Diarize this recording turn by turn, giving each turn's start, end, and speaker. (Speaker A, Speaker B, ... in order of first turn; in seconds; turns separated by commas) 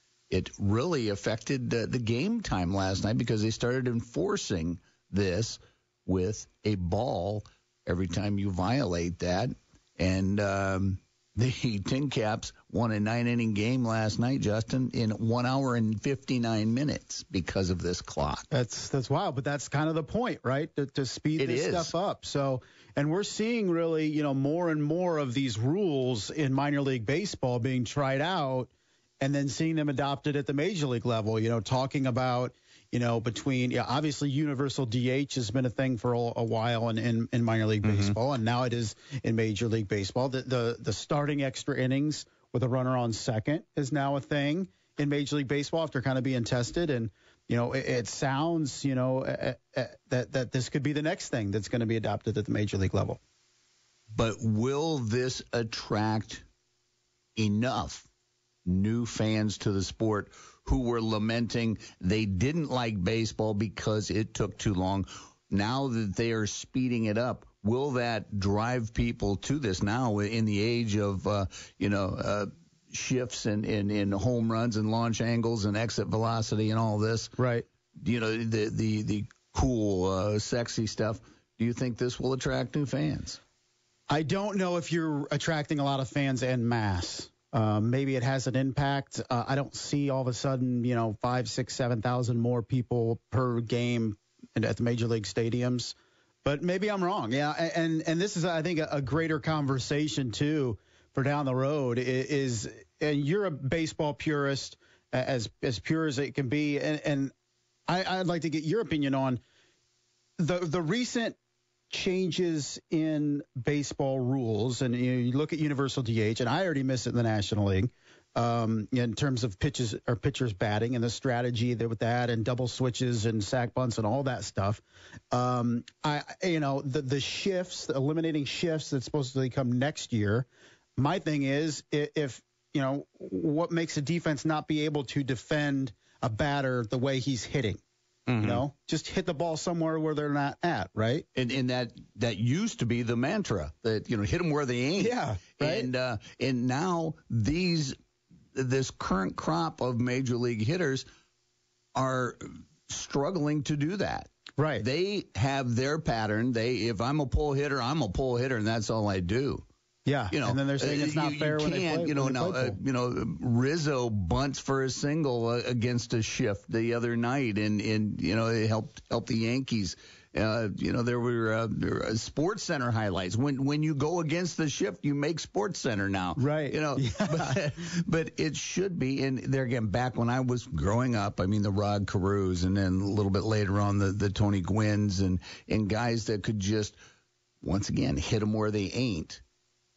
Speaker A: 0.3-18.5, Speaker B: 18.5-53.2, Speaker A: 21.4-21.9, Speaker A: 37.8-38.1, Speaker A: 54.1-56.4, Speaker A: 57.4-58.1, Speaker A: 58.6-77.3, Speaker B: 77.4-77.7, Speaker A: 78.0-83.4, Speaker B: 84.1-107.3, Speaker B: 107.9-109.4, Speaker B: 110.4-111.4, Speaker B: 111.9-137.8, Speaker A: 138.3-138.6, Speaker B: 138.4-141.2, Speaker A: 141.3-147.9, Speaker B: 145.0-145.9, Speaker A: 148.5-151.1, Speaker A: 151.9-159.7, Speaker B: 154.6-154.8, Speaker B: 160.1-162.8, Speaker A: 160.3-186.9, Speaker B: 176.4-177.6, Speaker A: 187.6-189.4